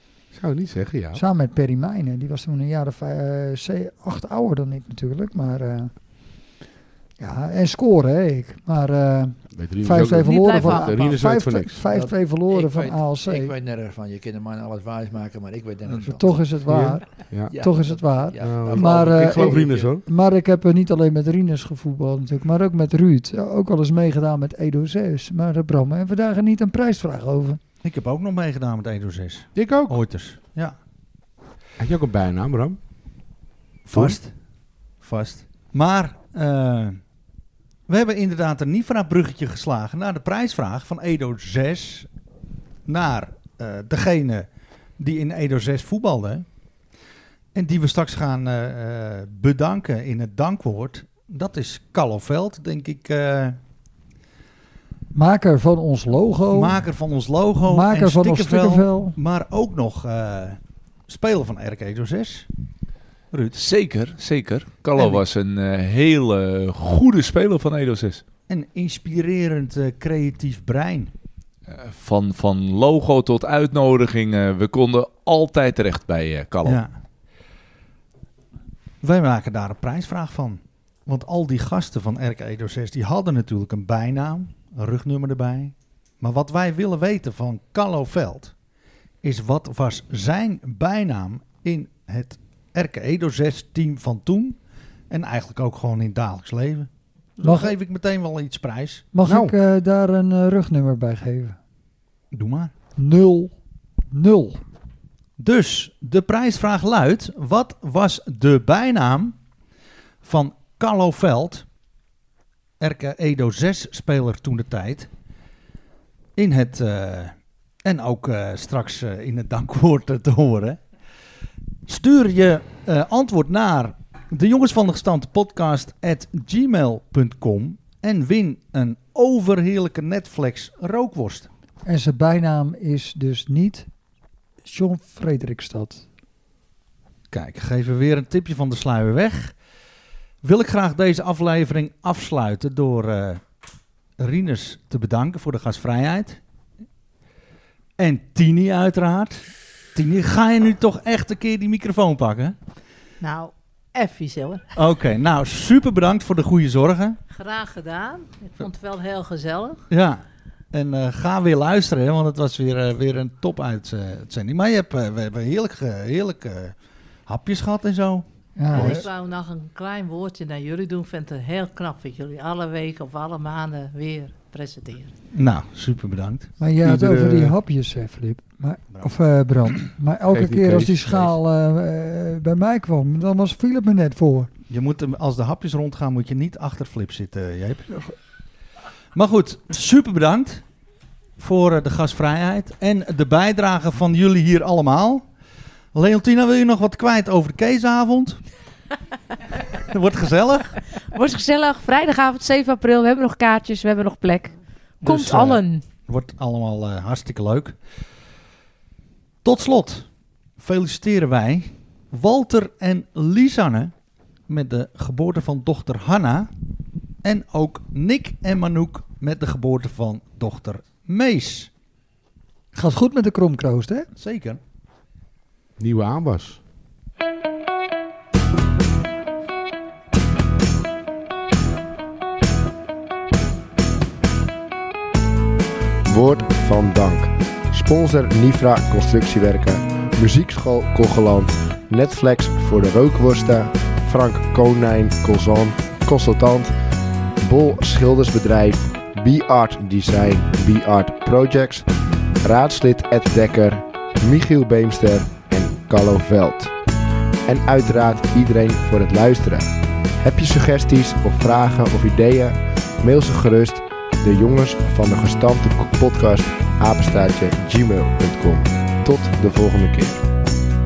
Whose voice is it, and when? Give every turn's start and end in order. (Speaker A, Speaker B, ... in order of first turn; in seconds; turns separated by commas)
Speaker A: 0.3-1.2, Speaker B: 1.1-6.0, Speaker B: 7.2-13.5, Speaker A: 9.5-11.8, Speaker C: 10.2-11.1, Speaker D: 11.9-16.6, Speaker B: 16.0-27.6, Speaker A: 16.6-17.6, Speaker D: 17.5-19.9, Speaker A: 18.4-20.1, Speaker E: 27.8-30.8, Speaker A: 29.6-30.1, Speaker A: 31.8-32.8, Speaker E: 33.9-34.4, Speaker A: 33.9-34.2, Speaker E: 35.0-37.0, Speaker E: 37.9-42.1, Speaker E: 42.9-46.5, Speaker E: 47.5-53.6, Speaker B: 55.1-56.8, Speaker E: 56.5-62.5, Speaker B: 57.6-59.2, Speaker E: 63.3-63.6, Speaker F: 63.5-68.2, Speaker E: 65.0-65.2, Speaker E: 68.5-71.1, Speaker F: 71.7-76.8, Speaker E: 76.6-77.0, Speaker E: 79.0-88.6, Speaker E: 89.2-99.0, Speaker B: 97.4-97.8, Speaker B: 99.1-101.6, Speaker A: 99.2-99.5, Speaker E: 102.3-102.7, Speaker B: 103.0-103.5, Speaker B: 104.1-104.6, Speaker E: 105.4-109.4, Speaker E: 110.2-111.7, Speaker E: 112.8-115.1, Speaker E: 116.4-120.8, Speaker E: 121.9-131.5, Speaker B: 131.8-133.9, Speaker B: 134.6-136.0, Speaker E: 137.3-139.6, Speaker E: 140.4-143.4, Speaker E: 144.2-146.4, Speaker E: 148.0-152.6, Speaker G: 153.2-154.6, Speaker E: 154.7-157.2, Speaker G: 157.3-159.8, Speaker E: 159.9-166.7, Speaker E: 167.3-169.0, Speaker B: 168.6-169.1, Speaker G: 168.7-175.1, Speaker E: 175.3-176.5, Speaker B: 176.6-184.5, Speaker A: 176.8-177.6, Speaker A: 180.3-181.4, Speaker E: 184.7-188.2, Speaker E: 189.1-190.6, Speaker E: 191.4-195.2, Speaker E: 195.9-198.4, Speaker E: 199.9-200.8, Speaker C: 201.1-205.8, Speaker E: 205.0-207.8, Speaker G: 205.1-205.8, Speaker E: 209.4-213.9, Speaker E: 214.5-216.5, Speaker E: 217.2-221.7, Speaker B: 222.7-224.1, Speaker E: 224.2-224.6, Speaker A: 225.8-226.6, Speaker H: 236.1-246.7, Speaker H: 247.4-251.9, Speaker H: 252.4-256.7, Speaker H: 257.4-270.2